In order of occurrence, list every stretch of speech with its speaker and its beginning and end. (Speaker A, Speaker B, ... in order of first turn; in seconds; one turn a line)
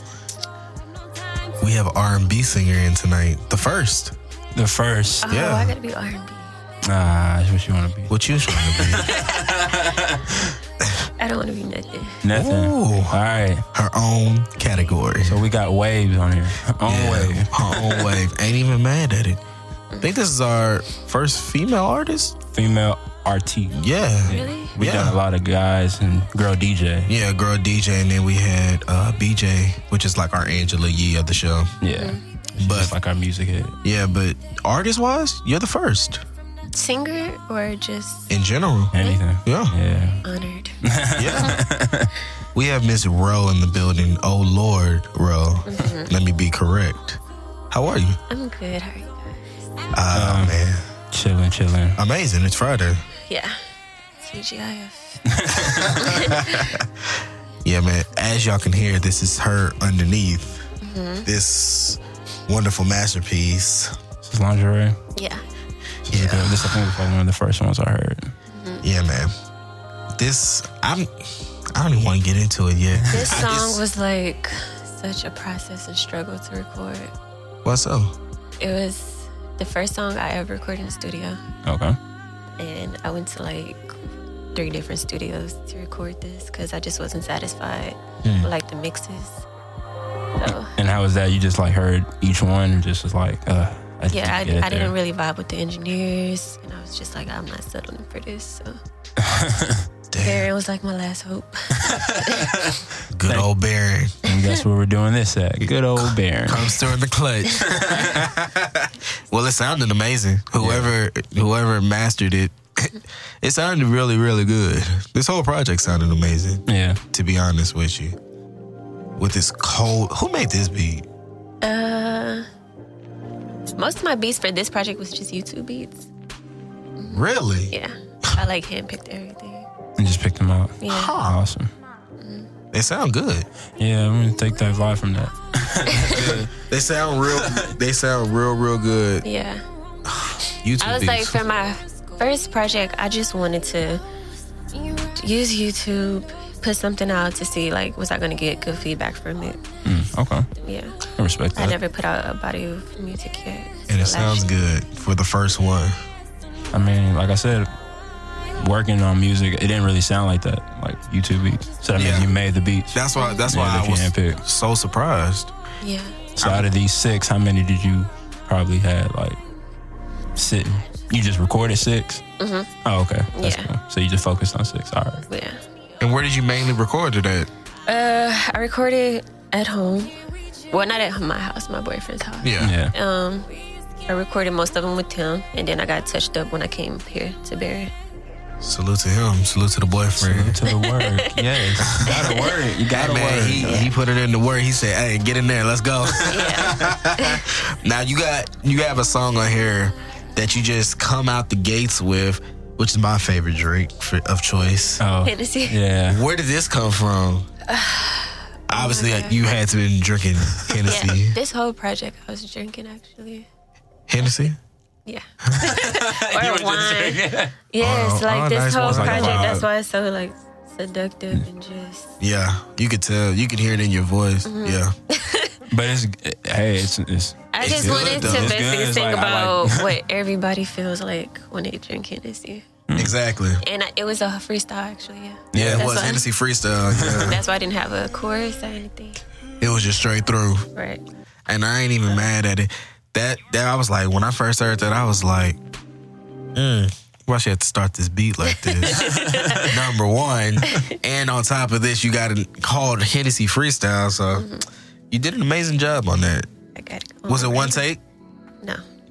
Speaker A: 1.6-4.1
Speaker B: 4.5-5.3
Speaker C: 5.2-6.6
Speaker A: 5.3-5.7
Speaker B: 6.8-10.6
Speaker A: 8.1-9.2
Speaker C: 11.2-12.2
Speaker B: 12.2-13.7
Speaker A: 12.3-13.2
Speaker A: 13.7-15.4
Speaker B: 15.2-18.1
Speaker A: 16.9-19.4
Speaker A: 20.0-22.4
Speaker B: 22.5-27.1
Speaker A: 23.7-25.2
Speaker C: 24.3-24.8
Speaker A: 27.1-31.7
Speaker B: 31.8-33.8
Speaker C: 31.9-32.2
Speaker A: 32.6-32.9
Speaker A: 33.8-36.2
Speaker C: 36.7-38.3
Speaker A: 38.3-39.8
Speaker B: 38.9-40.2
Speaker C: 40.2-40.8
Speaker B: 40.8-42.1
Speaker A: 41.1-41.6
Speaker C: 41.3-41.6
Speaker A: 42.5-47.2
Speaker C: 45.6-46.1
Speaker A: 47.7-48.2
Speaker C: 48.3-49.5
Speaker A: 49.9-50.9
Speaker B: 50.1-50.6
Speaker B: 51.1-52.0
Speaker A: 52.0-53.0
Speaker C: 53.3-53.6
Speaker C: 54.2-55.2
Speaker B: 55.2-56.0
Speaker A: 55.5-60.6
Speaker C: 55.9-56.8
Speaker C: 60.8-61.3
Speaker A: 61.2-64.0
Speaker B: 64.2-65.0
Speaker C: 65.1-65.4
Speaker B: 66.0-68.3
Speaker A: 66.1-67.0
Speaker C: 68.5-68.8
Speaker A: 68.8-69.3
Speaker A: 70.2-73.8
Speaker B: 73.0-73.5
Speaker C: 73.1-77.1
Speaker A: 77.6-78.1
Speaker C: 78.6-81.4
Speaker B: 81.6-82.0
Speaker C: 82.6-83.9
Speaker C: 84.5-89.4
Speaker A: 88.2-88.5
Speaker C: 90.4-90.7
Speaker B: 90.7-94.9
Speaker C: 94.1-98.8
Speaker B: 99.2-99.8
Speaker A: 100.1-100.5
Speaker C: 100.2-102.6
Speaker B: 101.8-103.5
Speaker A: 103.1-104.2
Speaker B: 104.2-106.8
Speaker A: 106.0-108.7
Speaker C: 107.5-107.7
Speaker B: 107.7-108.3
Speaker A: 109.3-118.2
Speaker B: 110.6-110.9
Speaker B: 116.7-117.0
Speaker A: 119.2-121.0
Speaker C: 121.6-122.5
Speaker C: 123.8-126.1
Speaker C: 127.0-129.7
Speaker A: 127.1-127.7
Speaker B: 130.0-131.7
Speaker C: 130.8-131.2
Speaker A: 130.9-131.4
Speaker C: 132.2-132.5
Speaker A: 132.7-133.5
Speaker B: 133.8-136.5
Speaker C: 135.9-136.3
Speaker A: 136.1-139.2
Speaker B: 137.3-137.7
Speaker C: 139.2-139.6
Speaker A: 140.1-141.4
Speaker C: 140.8-144.0
Speaker C: 145.0-149.6
Speaker B: 149.8-150.5
Speaker C: 150.6-151.0
Speaker B: 151.2-151.8
Speaker C: 151.5-154.5
Speaker A: 153.9-156.0
Speaker B: 156.7-157.7
Speaker B: 158.6-164.4
Speaker A: 161.9-162.3
Speaker A: 162.9-165.5
Speaker C: 163.2-163.4
Speaker C: 165.8-166.2
Speaker B: 166.4-169.4
Speaker A: 166.4-166.7
Speaker B: 170.3-172.2
Speaker C: 172.4-172.7
Speaker B: 172.8-175.3
Speaker C: 173.3-173.7
Speaker C: 175.3-175.6
Speaker A: 176.0-177.5
Speaker C: 177.9-183.5
Speaker A: 182.4-182.7
Speaker B: 182.6-182.9
Speaker C: 184.1-187.9
Speaker A: 188.6-190.6
Speaker B: 190.2-193.8
Speaker C: 190.6-192.6
Speaker A: 191.8-205.0
Speaker C: 193.6-193.9
Speaker C: 196.3-197.4
Speaker B: 205.0-206.2
Speaker C: 205.2-205.8
Speaker A: 206.1-207.5
Speaker C: 207.7-209.4
Speaker A: 208.7-211.4
Speaker C: 210.8-213.5
Speaker A: 214.1-214.6
Speaker C: 215.1-222.2
Speaker B: 215.6-217.5
Speaker A: 217.8-219.6
Speaker B: 218.8-219.7
Speaker A: 222.2-224.9
Speaker C: 224.4-225.6
Speaker B: 225.7-229.9
Speaker C: 227.5-232.7
Speaker A: 227.6-228.5
Speaker B: 232.9-233.1
Speaker A: 232.9-233.6
Speaker C: 233.6-236.2
Speaker B: 235.5-235.9
Speaker A: 235.5-237.4
Speaker B: 236.9-237.3
Speaker C: 237.0-239.2
Speaker A: 239.6-240.7
Speaker C: 240.7-241.0
Speaker A: 241.5-245.6
Speaker A: 246.5-249.0
Speaker C: 248.5-249.8
Speaker B: 248.8-249.8
Speaker A: 249.6-254.5
Speaker C: 250.6-250.9
Speaker C: 254.3-254.7
Speaker A: 255.1-256.5
Speaker C: 256.7-257.8
Speaker A: 257.3-258.0